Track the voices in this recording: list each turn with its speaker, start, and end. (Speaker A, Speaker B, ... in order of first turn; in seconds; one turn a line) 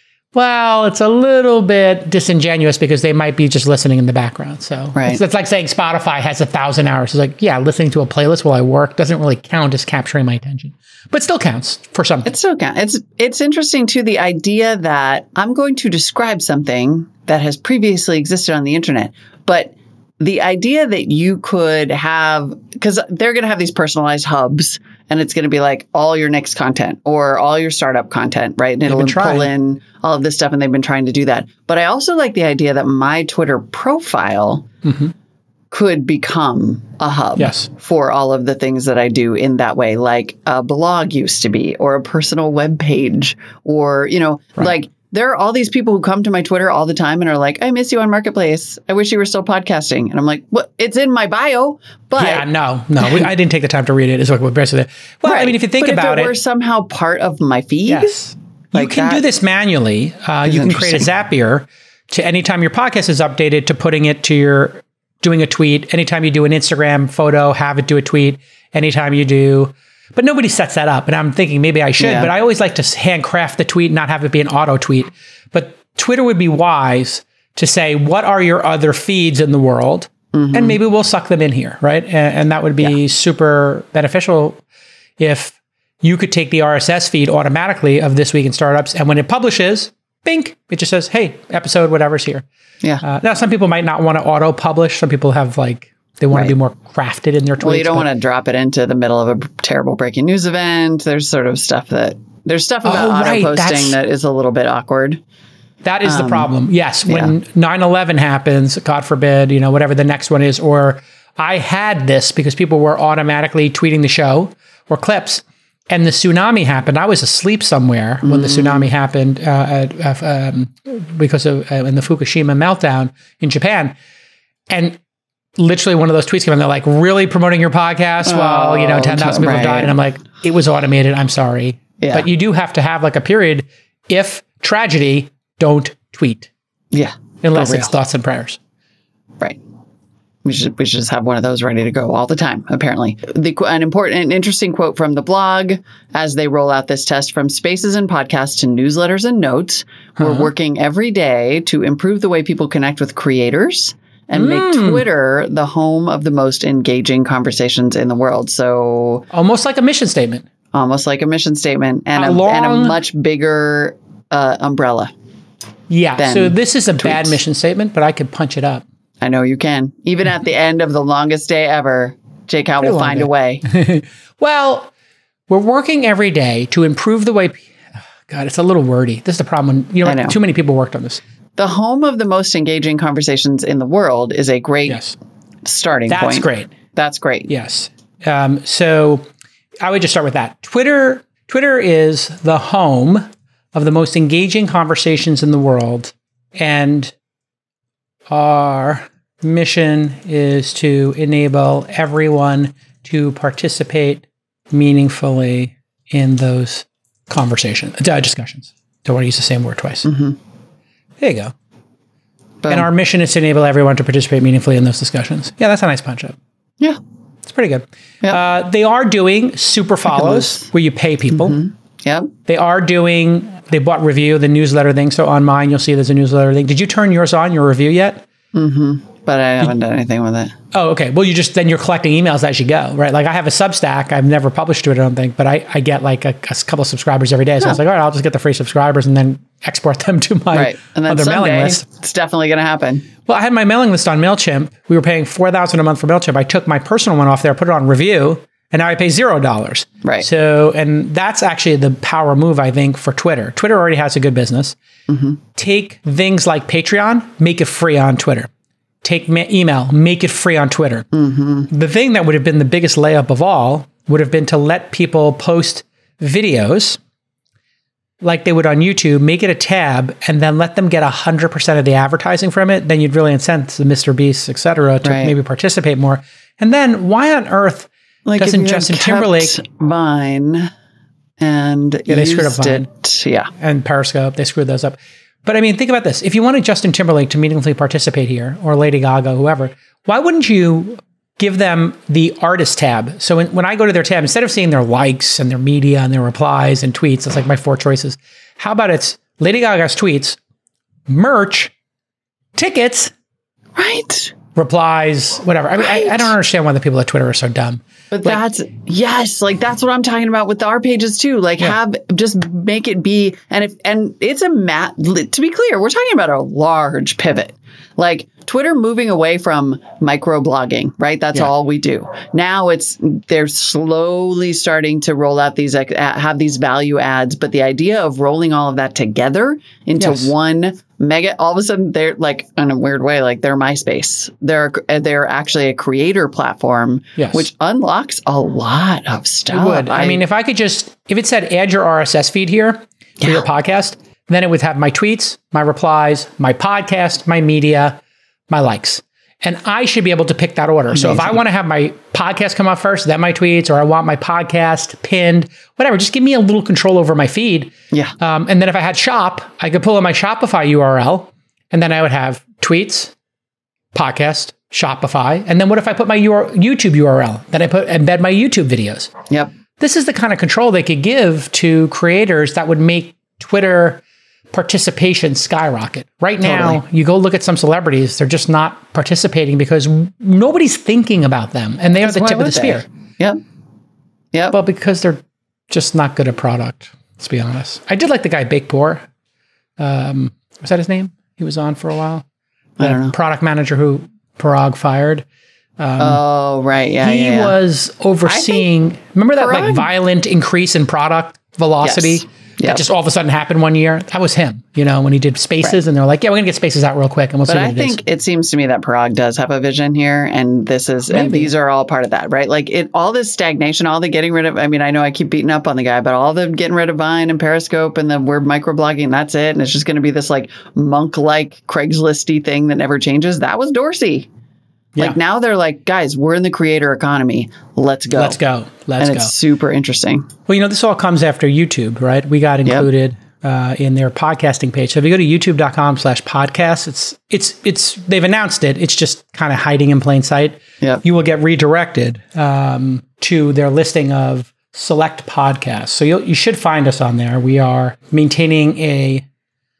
Speaker A: 0.3-12.3
Speaker B: 5.0-5.2
Speaker B: 12.2-34.7
Speaker A: 28.9-29.5
Speaker A: 34.8-35.1
Speaker B: 35.7-52.5
Speaker A: 37.4-37.7
Speaker A: 52.2-56.3
Speaker B: 55.2-59.2
Speaker A: 57.9-84.6
Speaker B: 60.5-61.0
Speaker B: 72.0-72.3
Speaker B: 80.3-80.8
Speaker A: 85.2-92.4
Speaker A: 93.0-98.1
Speaker B: 97.6-105.2
Speaker A: 102.8-104.0
Speaker A: 105.8-123.9
Speaker B: 106.0-106.5
Speaker B: 107.1-107.3
Speaker B: 118.2-118.9
Speaker A: 124.7-125.0
Speaker A: 125.6-136.5
Speaker B: 128.2-130.0
Speaker B: 132.0-132.3
Speaker B: 136.9-137.9
Speaker A: 137.4-138.6
Speaker B: 140.4-159.2
Speaker A: 150.2-150.5
Speaker A: 154.3-155.0
Speaker A: 159.3-160.4
Speaker B: 160.7-165.1
Speaker A: 162.2-163.0
Speaker A: 165.9-168.8
Speaker B: 166.2-167.4
Speaker B: 169.2-173.6
Speaker A: 172.8-174.9
Speaker A: 175.5-177.7
Speaker A: 178.3-181.2
Speaker B: 180.0-180.4
Speaker B: 181.6-185.0
Speaker A: 184.9-185.1
Speaker B: 185.6-187.5
Speaker A: 186.1-186.7
Speaker A: 187.5-189.2
Speaker A: 189.8-197.1
Speaker A: 198.3-210.1
Speaker B: 210.0-210.4
Speaker A: 211.2-211.5
Speaker B: 212.6-212.9
Speaker A: 212.7-216.3
Speaker A: 217.4-221.6
Speaker B: 220.1-220.7
Speaker B: 221.3-222.3
Speaker A: 222.5-228.2
Speaker B: 228.5-230.5
Speaker A: 230.7-241.8
Speaker B: 240.5-243.1
Speaker A: 243.2-254.8
Speaker B: 255.1-255.4
Speaker A: 255.6-258.5
Speaker A: 259.0-261.1
Speaker B: 261.1-261.7
Speaker A: 261.7-267.0
Speaker A: 268.2-279.6
Speaker B: 275.0-275.3
Speaker B: 278.2-280.7
Speaker B: 281.4-283.5
Speaker A: 282.1-282.9
Speaker A: 283.6-300.4
Speaker A: 301.1-301.7
Speaker A: 302.6-303.1
Speaker B: 303.8-304.3
Speaker A: 304.5-308.4
Speaker B: 305.8-306.3
Speaker B: 308.1-340.2
Speaker A: 330.0-330.3
Speaker A: 337.2-337.5
Speaker A: 339.5-348.0
Speaker A: 348.5-363.1
Speaker B: 350.9-351.4
Speaker A: 363.9-369.1
Speaker A: 369.8-374.0
Speaker A: 374.5-382.8
Speaker B: 376.4-376.8
Speaker B: 382.0-383.4
Speaker A: 384.5-389.0
Speaker A: 389.8-392.2
Speaker B: 392.8-393.1
Speaker A: 392.8-395.2
Speaker A: 395.8-396.2
Speaker B: 396.0-397.5
Speaker A: 397.0-408.0
Speaker B: 398.2-398.6
Speaker B: 399.4-399.9
Speaker B: 401.8-402.8
Speaker B: 407.5-424.3
Speaker A: 411.1-411.5
Speaker B: 425.0-428.4
Speaker A: 428.1-429.3
Speaker B: 429.0-430.3
Speaker A: 430.5-449.2